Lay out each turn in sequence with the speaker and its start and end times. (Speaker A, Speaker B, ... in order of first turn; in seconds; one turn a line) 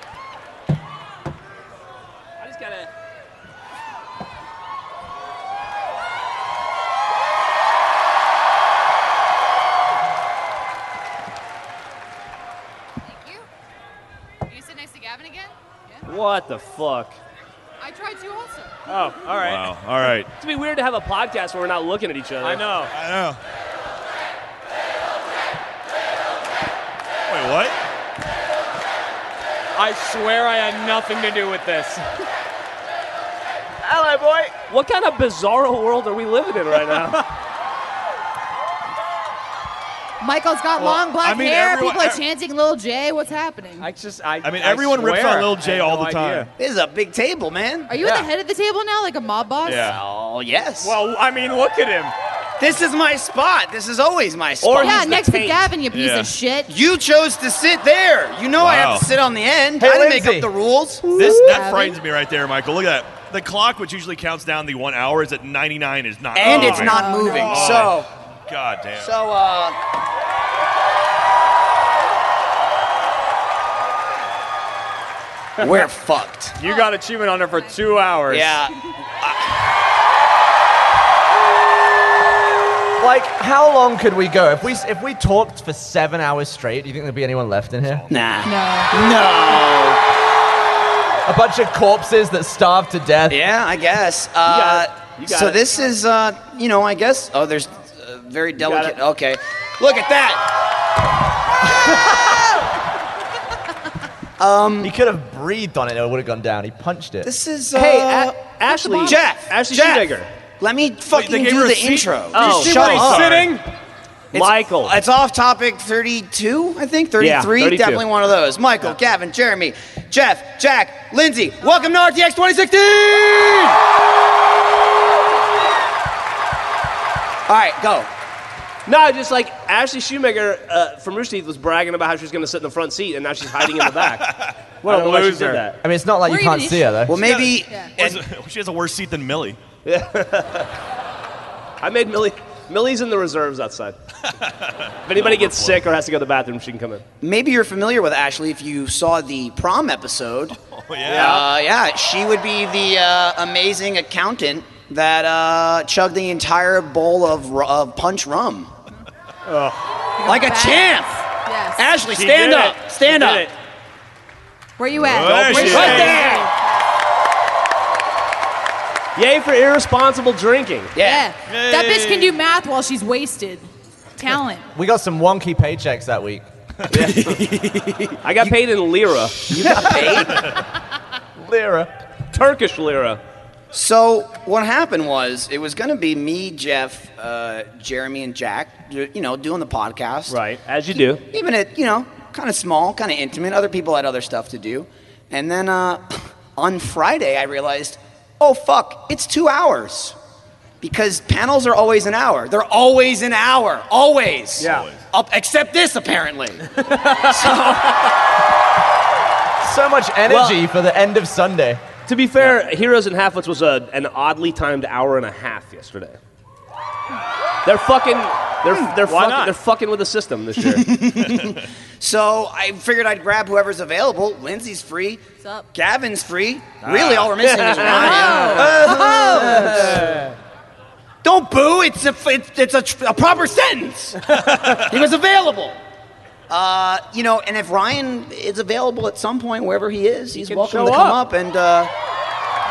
Speaker A: 2.4-2.8
Speaker B: 13.0-13.5
Speaker B: 14.4-16.1
Speaker C: 16.1-17.2
Speaker B: 17.8-18.8
Speaker A: 18.9-19.7
Speaker D: 19.4-20.3
Speaker C: 20.4-22.8
Speaker A: 22.4-22.9
Speaker D: 22.9-23.4
Speaker D: 27.3-27.8
Speaker A: 29.7-32.3
Speaker E: 33.8-34.5
Speaker C: 34.7-37.3
Speaker B: 40.2-43.9
Speaker D: 40.8-42.2
Speaker A: 43.8-46.5
Speaker D: 44.4-46.5
Speaker F: 46.6-47.9
Speaker B: 47.9-50.0
Speaker A: 48.0-48.3
Speaker D: 49.6-50.0
Speaker F: 49.8-51.0
Speaker A: 50.8-52.1
Speaker F: 52.6-55.2
Speaker C: 54.6-55.7
Speaker B: 54.8-56.7
Speaker D: 55.9-56.3
Speaker F: 56.7-61.1
Speaker D: 58.6-59.1
Speaker E: 59.8-60.5
Speaker C: 61.0-61.5
Speaker D: 61.1-69.1
Speaker B: 61.2-62.0
Speaker F: 66.3-68.1
Speaker A: 66.5-67.9
Speaker B: 66.7-67.7
Speaker F: 69.0-69.8
Speaker F: 75.6-76.6
Speaker A: 76.6-78.6
Speaker B: 76.6-76.9
Speaker F: 78.3-79.5
Speaker E: 83.0-88.1
Speaker D: 87.8-88.4
Speaker F: 88.1-90.0
Speaker B: 88.4-89.0
Speaker E: 91.2-93.4
Speaker F: 93.3-100.4
Speaker C: 94.5-95.6
Speaker C: 98.6-99.0
Speaker F: 104.4-104.9
Speaker E: 104.8-107.3
Speaker F: 107.2-113.5
Speaker C: 107.7-110.3
Speaker D: 111.1-113.5
Speaker C: 112.3-113.2
Speaker A: 112.4-113.7
Speaker F: 114.3-123.8
Speaker C: 114.3-115.0
Speaker C: 117.2-118.0
Speaker F: 127.5-128.1
Speaker C: 128.9-135.8
Speaker D: 133.8-134.5
Speaker A: 134.8-135.7
Speaker E: 135.8-137.2
Speaker B: 136.2-137.0
Speaker F: 137.1-138.2
Speaker D: 137.2-139.6
Speaker C: 139.8-140.7
Speaker C: 141.8-144.0
Speaker D: 144.4-145.9
Speaker C: 145.1-147.0
Speaker F: 147.2-150.6
Speaker D: 150.7-151.4
Speaker C: 151.1-151.4
Speaker F: 151.1-158.7
Speaker A: 159.5-159.9
Speaker B: 160.2-161.8
Speaker F: 160.2-161.1
Speaker F: 161.8-163.5
Speaker A: 162.1-163.4
Speaker B: 164.8-166.6
Speaker D: 165.0-166.2
Speaker C: 165.1-166.5
Speaker F: 165.5-166.4
Speaker C: 169.2-171.0
Speaker F: 171.0-171.3
Speaker B: 171.0-174.7
Speaker D: 171.5-172.3
Speaker E: 174.7-176.5
Speaker C: 176.9-180.5
Speaker F: 179.5-180.6
Speaker E: 179.8-180.2
Speaker E: 181.4-181.9
Speaker C: 182.3-183.2
Speaker F: 183.7-190.4
Speaker C: 190.3-191.2
Speaker F: 191.3-200.2
Speaker F: 200.8-206.6
Speaker A: 204.6-205.0
Speaker D: 204.6-205.0
Speaker A: 206.8-207.8
Speaker F: 207.3-207.9
Speaker E: 209.6-211.8
Speaker C: 210.3-210.7
Speaker C: 212.1-216.2
Speaker C: 217.6-220.9
Speaker A: 219.0-219.6
Speaker F: 220.6-225.2
Speaker B: 225.4-225.7
Speaker F: 225.7-230.2
Speaker D: 226.8-227.6
Speaker C: 227.4-228.2
Speaker B: 227.8-229.8
Speaker A: 228.4-228.7
Speaker A: 229.9-230.2
Speaker F: 231.2-235.8
Speaker D: 234.3-234.9
Speaker F: 236.5-241.9
Speaker C: 240.3-241.2